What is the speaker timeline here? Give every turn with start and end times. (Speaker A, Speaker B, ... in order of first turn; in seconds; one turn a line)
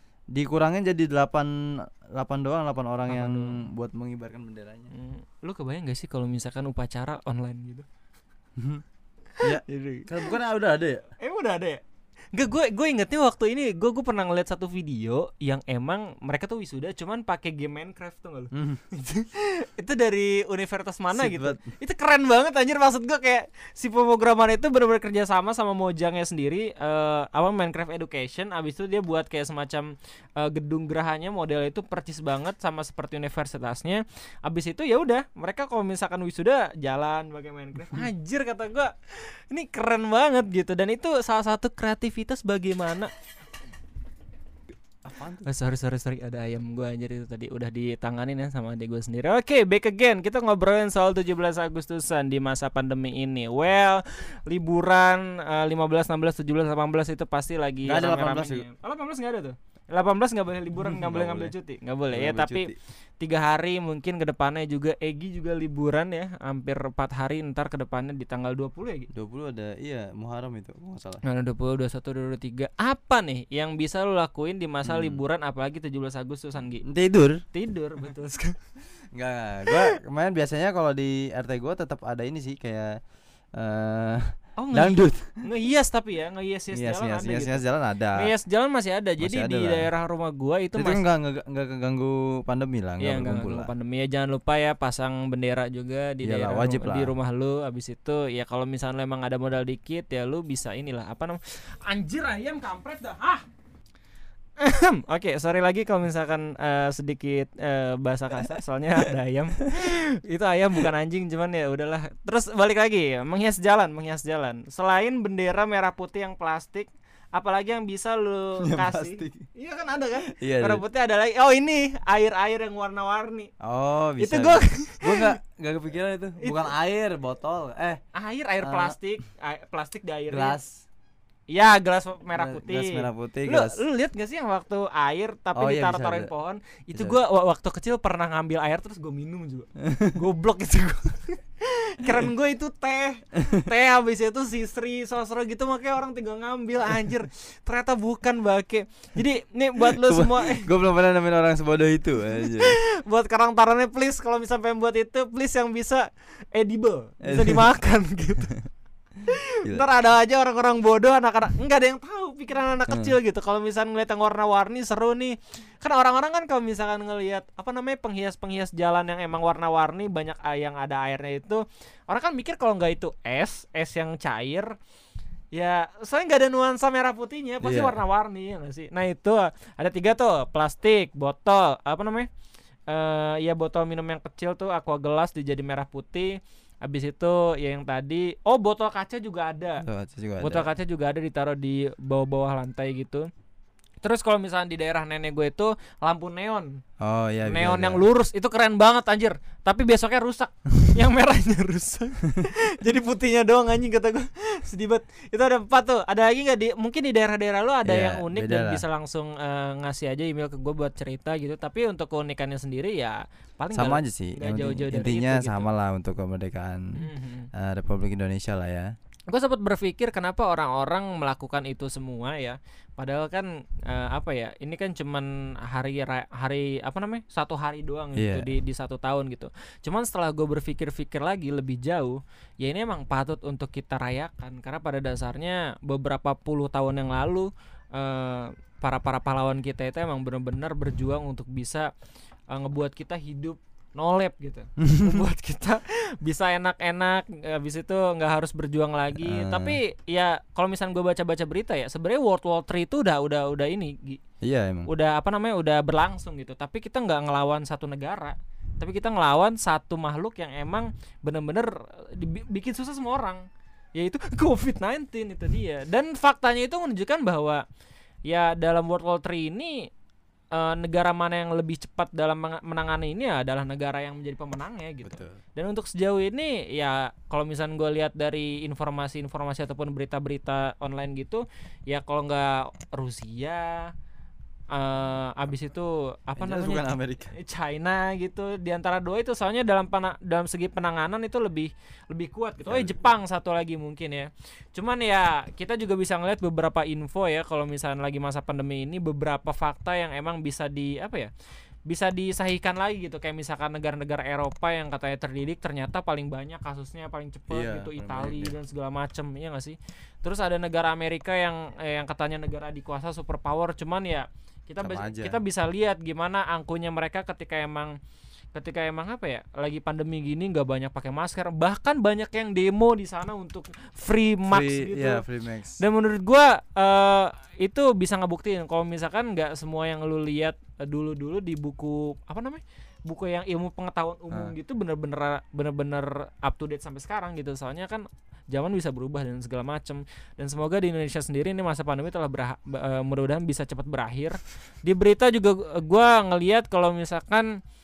Speaker A: 0.3-4.9
Speaker B: 3.1-3.6
Speaker B: 4.9-7.8
Speaker A: 8.6-8.8
Speaker B: 9.4-10.3
Speaker A: 9.4-11.1
Speaker B: 11.2-11.8
Speaker B: 12.3-43.1
Speaker A: 18.5-18.8
Speaker A: 21.1-21.7
Speaker A: 45.0-45.5
Speaker B: 45.4-69.1
Speaker A: 57.9-58.6
Speaker A: 60.8-61.5
Speaker A: 62.1-62.8
Speaker A: 69.1-71.2
Speaker B: 71.2-76.8
Speaker A: 74.8-75.2
Speaker A: 76.8-77.4
Speaker B: 77.5-78.6
Speaker A: 79.1-83.0
Speaker A: 83.5-85.4
Speaker B: 84.6-87.6
Speaker A: 86.7-88.3
Speaker B: 88.2-91.0
Speaker A: 89.2-89.9
Speaker A: 90.7-93.7
Speaker B: 93.0-103.4
Speaker A: 96.2-97.1
Speaker B: 104.6-123.5
Speaker A: 118.6-119.5
Speaker A: 120.3-120.8
Speaker A: 123.6-128.0
Speaker B: 124.2-125.3
Speaker B: 128.1-130.6
Speaker A: 128.6-129.0
Speaker A: 130.3-130.8
Speaker B: 131.5-150.7
Speaker A: 132.3-133.8
Speaker A: 135.5-136.3
Speaker A: 136.9-137.2
Speaker A: 139.8-140.2
Speaker A: 149.8-152.8
Speaker B: 152.4-158.5
Speaker A: 157.2-157.7
Speaker B: 159.2-174.7
Speaker A: 162.9-163.2
Speaker B: 175.5-182.3
Speaker A: 177.6-178.0
Speaker B: 182.9-189.8
Speaker A: 189.8-190.7
Speaker B: 190.4-193.3
Speaker B: 194.0-196.8
Speaker A: 197.0-198.0
Speaker B: 197.4-215.7
Speaker A: 207.8-208.8
Speaker A: 213.7-218.9
Speaker B: 216.9-217.5
Speaker B: 219.3-241.9
Speaker A: 228.2-228.5
Speaker B: 242.5-254.2
Speaker A: 244.8-245.2
Speaker A: 249.2-249.8
Speaker A: 254.4-254.9
Speaker B: 254.9-263.4
Speaker B: 263.9-267.6
Speaker B: 268.2-269.9
Speaker B: 270.5-283.9
Speaker A: 275.0-275.4
Speaker B: 284.7-301.3
Speaker A: 286.4-287.3
Speaker A: 292.6-293.1
Speaker B: 301.9-317.9
Speaker A: 307.5-308.6
Speaker A: 314.8-315.4
Speaker B: 318.5-325.2
Speaker A: 324.5-325.8
Speaker B: 325.8-347.5